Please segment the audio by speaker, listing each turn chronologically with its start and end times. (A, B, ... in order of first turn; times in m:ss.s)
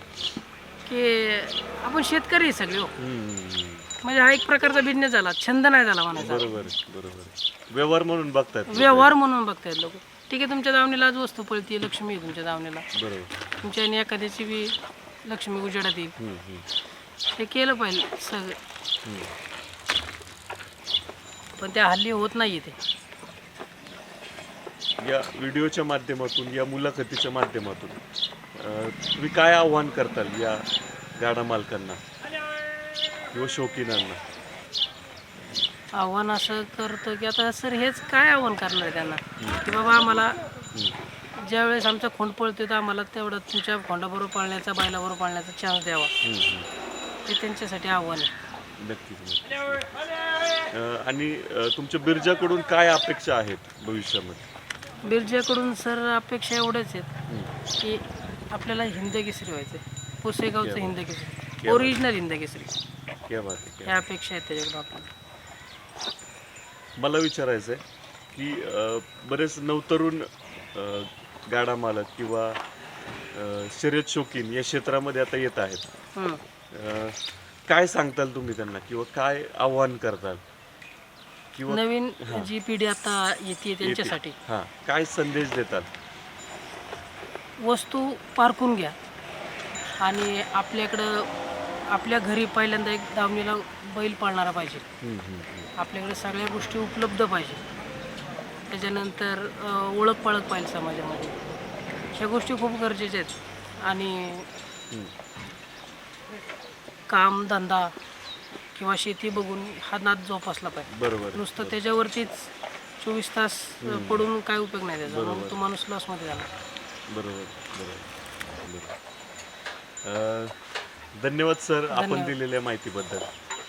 0:00.8-0:02.9 A
0:03.0-0:03.9 B
0:04.0-0:06.5 A
0:06.1-0:09.1 B
0:08.7-0:12.8 A
0:12.9-0:13.3 B
0:13.6-0:16.1 A
0:16.2-0:16.7 B
0:17.4-0:18.6 A
0:19.0-0:19.3 B
0:21.6-0:22.8 A
0:25.0-0:28.0 B
0:28.5-0:32.0 B
0:33.3-0:34.2 B
0:36.0-0:40.3 A
0:39.4-0:39.8 B
0:41.4-0:46.1 A
0:46.2-0:46.7 B
0:47.2-0:48.3 A
0:48.8-0:49.9 B
0:50.7-0:54.5 B
0:55.0-0:57.1 A
0:57.8-1:02.8 A
1:00.6-1:01.0 B
1:01.6-1:02.0 B
1:03.3-1:04.0 B
1:03.8-1:05.1 A
1:07.0-1:12.6 B
1:13.3-1:15.8 B
1:16.7-1:20.4 B
1:21.5-1:22.5 B
1:21.6-1:24.4 A
1:23.8-1:25.9 B
1:27.6-1:29.0 A
1:30.0-1:31.3 A
1:31.9-1:34.8 A
1:35.0-1:35.7 B
1:35.8-1:37.6 A
1:38.7-1:41.5 A
1:42.1-1:44.4 A
1:47.1-1:47.9 A
1:48.7-1:56.5 A
1:50.9-1:51.8 B
1:53.8-1:54.3 B
1:55.0-1:55.6 B
1:57.1-1:58.9 B
2:00.0-2:00.6 B
2:01.2-2:03.3 B
2:01.9-2:02.3 A